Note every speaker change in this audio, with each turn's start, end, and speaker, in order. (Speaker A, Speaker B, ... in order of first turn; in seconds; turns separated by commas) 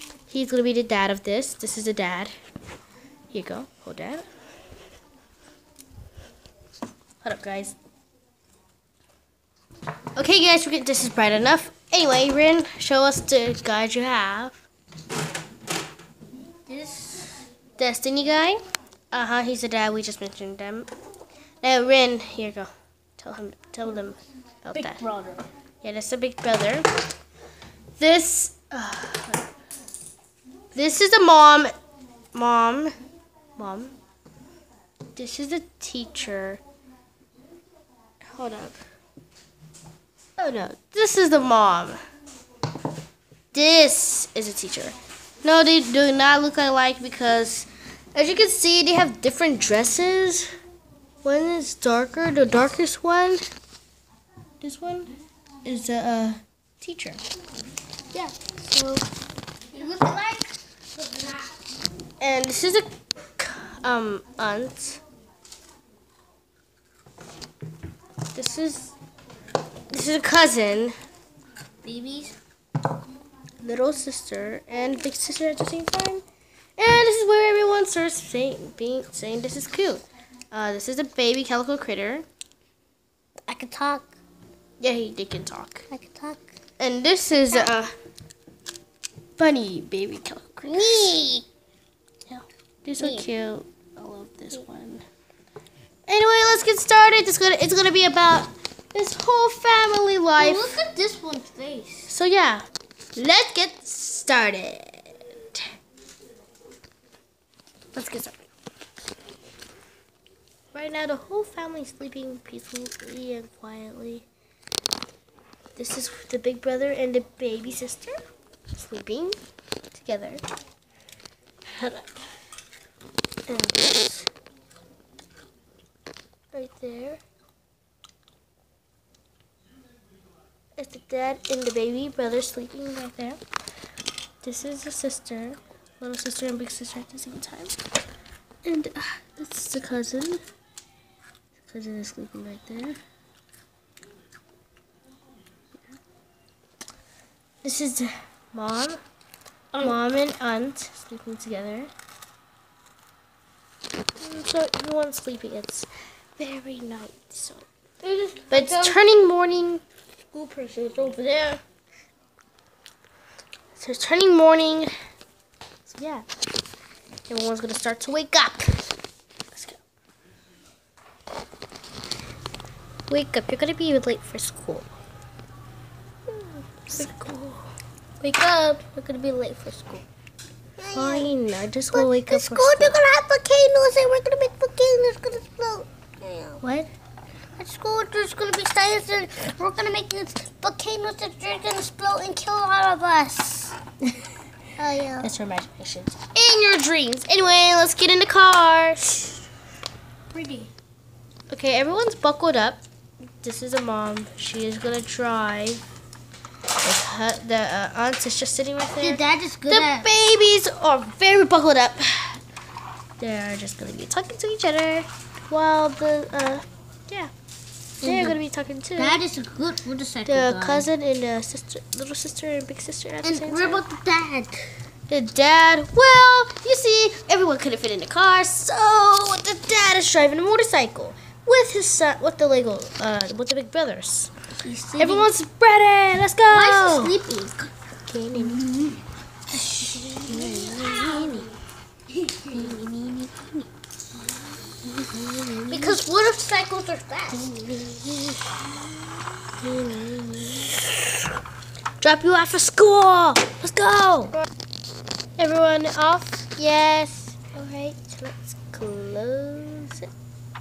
Speaker A: 0.3-2.3, Speaker A: 3.3-4.3, Speaker A: 7.2-7.8, Speaker A: 10.2-14.7, Speaker B: 16.7-17.4, Speaker A: 17.8-18.6, Speaker A: 19.1-20.9, Speaker A: 21.6-25.0, Speaker B: 24.7-25.4, Speaker A: 25.8-26.9, Speaker A: 28.0-29.5, Speaker A: 30.7-31.7, Speaker A: 32.3-33.0, Speaker A: 33.6-33.9, Speaker A: 35.1-36.6, Speaker A: 38.3-38.8, Speaker A: 40.4-42.0, Speaker A: 43.5-50.5, Speaker A: 51.2-53.4, Speaker A: 54.6-55.1, Speaker A: 55.6-57.2, Speaker A: 58.1-59.0, Speaker B: 59.7-61.5, Speaker A: 62.2-62.9, Speaker A: 63.4-65.0, Speaker A: 68.3-69.0, Speaker A: 69.9-71.0, Speaker B: 71.8-72.3, Speaker A: 73.6-76.2, Speaker A: 76.8-82.3, Speaker B: 83.5-84.1, Speaker A: 84.8-85.9, Speaker B: 85.9-86.5, Speaker A: 86.8-87.9, Speaker A: 89.4-91.1, Speaker B: 90.7-91.5, Speaker A: 92.3-95.0, Speaker B: 93.0-93.3, Speaker A: 96.1-100.8, Speaker B: 100.4-102.1, Speaker A: 102.1-105.6, Speaker A: 108.0-108.5, Speaker A: 110.7-114.3, Speaker A: 115.8-118.2, Speaker A: 118.8-119.4, Speaker A: 119.9-120.4, Speaker A: 121.8-122.0, Speaker A: 123.5-124.3, Speaker A: 126.5-127.2, Speaker A: 130.8-133.4, Speaker A: 134.4-137.8, Speaker A: 138.7-140.4, Speaker A: 141.6-143.0, Speaker A: 147.6-149.0, Speaker A: 149.8-151.9, Speaker A: 154.2-157.7, Speaker B: 158.0-159.0, Speaker A: 158.5-159.8, Speaker B: 160.3-161.6, Speaker A: 163.8-164.9, Speaker A: 165.9-166.3, Speaker A: 167.3-168.9, Speaker A: 169.5-169.8, Speaker A: 173.1-174.9, Speaker A: 176.9-177.7, Speaker B: 178.2-179.0, Speaker A: 179.0-180.0, Speaker B: 180.8-181.3, Speaker A: 180.9-183.0, Speaker B: 181.9-186.6, Speaker A: 186.6-186.9, Speaker B: 187.6-193.8, Speaker B: 194.8-195.3, Speaker A: 195.2-199.2, Speaker B: 200.3-200.7, Speaker A: 201.5-202.8, Speaker A: 203.4-205.8, Speaker A: 206.8-212.4, Speaker B: 209.0-210.1, Speaker A: 213.2-217.3, Speaker B: 218.0-218.4, Speaker A: 218.0-219.2, Speaker B: 219.0-220.9, Speaker A: 220.3-223.8, Speaker B: 223.2-224.7, Speaker A: 225.1-234.3, Speaker B: 234.6-235.3, Speaker A: 235.0-237.1, Speaker B: 236.5-237.7, Speaker A: 238.1-238.6, Speaker B: 238.3-241.5, Speaker A: 239.8-241.5, Speaker B: 242.2-243.7, Speaker A: 242.5-242.8, Speaker A: 245.2-246.0, Speaker B: 245.2-248.3, Speaker A: 249.6-251.2, Speaker A: 252.0-254.3, Speaker A: 255.4-260.1